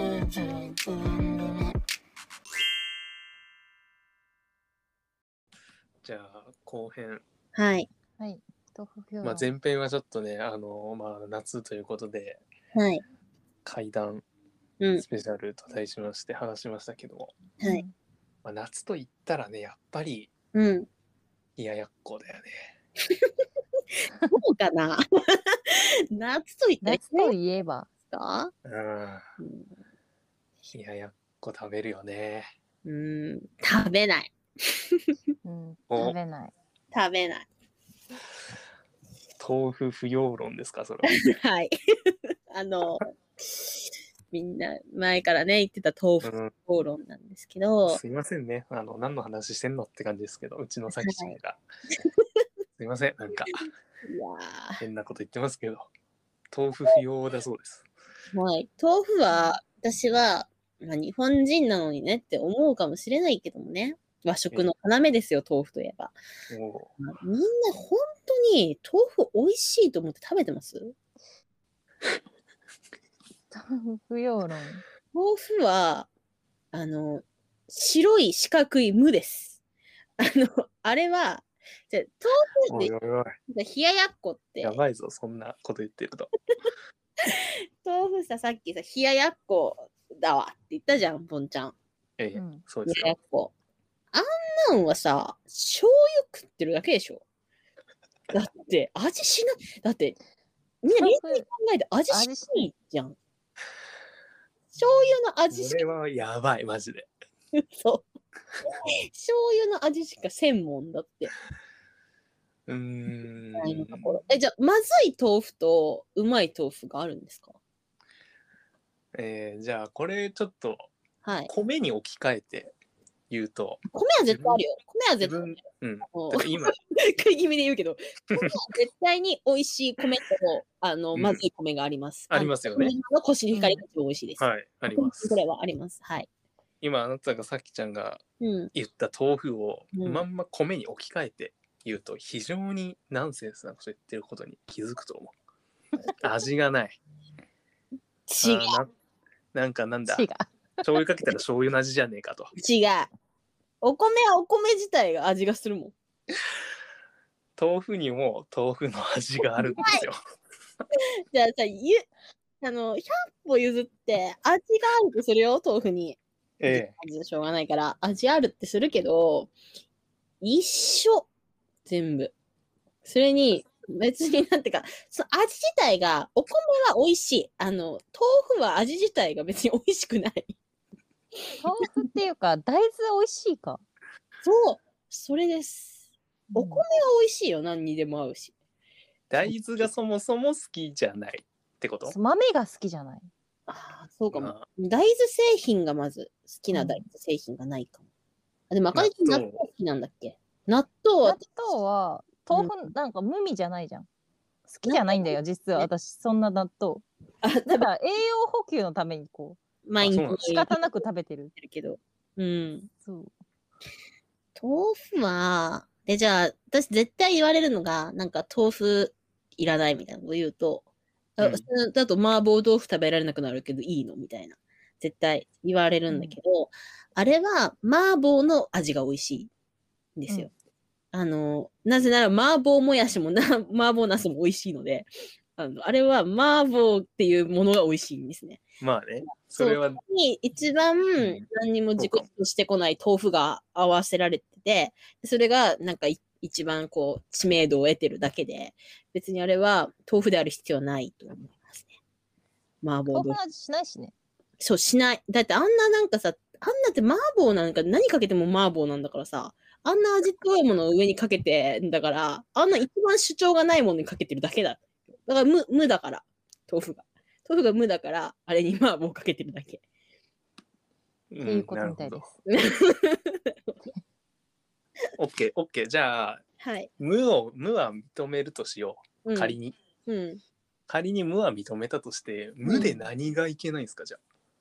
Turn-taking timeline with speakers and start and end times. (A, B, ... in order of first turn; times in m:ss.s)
0:06.0-0:07.2 A
0:07.6-0:07.9 B
0:08.2-0:09.5 C
0:09.2-0:12.4 A
0:12.8-0:13.0 B
0:13.6-0:14.2 A
0:15.0-0:17.4 A
0:17.6-0:17.9 C
0:18.4-0:20.3 A
0:20.5-0:20.9 B
0:21.6-0:22.7 A
0:24.3-0:27.3 B
0:26.8-0:27.9 C
0:28.1-0:28.5 B
0:28.6-0:29.2 A
0:29.4-0:29.7 B
0:30.7-0:32.5 A
0:32.8-0:35.0 B
0:35.4-0:36.5 C
0:35.9-0:36.2 A
0:36.9-0:37.5 B
0:39.4-0:41.1 A
0:41.0-0:43.1 B
0:44.3-0:48.0 B
0:46.2-0:46.5 A
0:47.9-0:51.6 A
0:51.0-0:51.4 B
0:52.8-0:53.7 A
0:54.0-0:54.8 B
0:54.8-0:55.9 A
0:56.5-0:57.8 A
0:58.3-1:06.1 B
1:06.5-1:06.9 A
1:07.0-1:11.0 B
1:13.5-1:14.8 C
1:15.1-1:16.1 B
1:16.7-1:19.6 B
1:20.2-1:22.9 B
1:22.7-1:23.4 A
1:23.5-1:24.8 B
1:24.6-1:26.3 A
1:27.2-1:31.8 B
1:32.2-1:33.2 A
1:32.4-1:32.6 C
1:32.8-1:33.5 B
1:34.1-1:37.2 B
1:38.3-1:40.2 B
1:40.8-1:43.2 B
1:41.0-1:41.5 C
1:42.1-1:42.7 C
1:44.7-1:45.9 B
1:45.5-1:47.1 A
1:47.6-1:48.1 B
1:49.1-1:51.3 B
1:52.7-1:54.1 A
1:53.6-1:57.6 B
1:59.1-2:00.9 A
2:01.2-2:01.5 B
2:01.5-2:02.7 A
2:03.3-2:04.6 A
2:03.9-2:05.4 B
2:05.2-2:06.8 A
2:06.1-2:16.3 B
2:11.2-2:11.4 A
2:12.3-2:12.9 A
2:13.5-2:13.8 C
2:14.4-2:15.4 A
2:16.8-2:18.2 A
2:18.4-2:18.7 B
2:18.7-2:25.3 A
2:19.9-2:20.2 B
2:26.1-2:27.0 A
2:28.3-2:28.8 B
2:28.4-2:28.9 A
2:29.5-2:30.3 A
2:30.1-2:30.8 C
2:30.8-2:32.5 A
2:32.6-2:33.1 B
2:33.8-2:35.9 B
2:37.6-2:40.2 A
2:39.8-2:40.0 B
2:41.3-2:42.1 B
2:42.6-2:49.5 B
2:46.6-2:46.9 A
2:50.4-2:51.3 B
2:51.9-2:52.3 B
2:53.0-3:00.6 B
3:01.6-3:03.8 C
3:04.4-3:06.0 B
3:06.5-3:06.8 C
3:06.6-3:08.5 B
3:09.3-3:12.2 A
3:12.1-3:13.3 C
3:13.7-3:18.0 B
3:14.3-3:14.7 A
3:16.7-3:17.0 C
3:18.7-3:21.4 B
3:18.9-3:19.6 A
3:21.2-3:24.1 C
3:22.5-3:22.9 B
3:24.7-3:27.0 C
3:24.8-3:25.9 B
3:27.4-3:27.9 B
3:27.7-3:29.6 C
3:29.8-3:31.0 B
3:30.0-3:30.5 A
3:30.3-3:31.5 C
3:31.6-3:32.9 B
3:33.0-3:33.3 C
3:34.6-3:40.8 B
3:41.4-3:49.5 B
3:41.4-3:41.7 A
3:46.1-3:46.4 C
3:50.2-3:50.5 B
3:51.1-3:58.7 B
3:58.8-4:00.0 A
3:59.5-4:11.9 B
4:02.0-4:02.2 A
4:12.8-4:13.4 B
4:13.1-4:14.1 C
4:14.6-4:29.8 B
4:31.3-4:32.3 A
4:31.4-4:32.2 C
4:32.5-4:33.8 B
4:35.2-4:36.4 A
4:36.6-4:36.9 B
4:37.0-4:39.8 A
4:39.2-4:40.4 B
4:40.9-4:44.2 A
4:42.6-4:42.9 B
4:42.7-4:43.0 C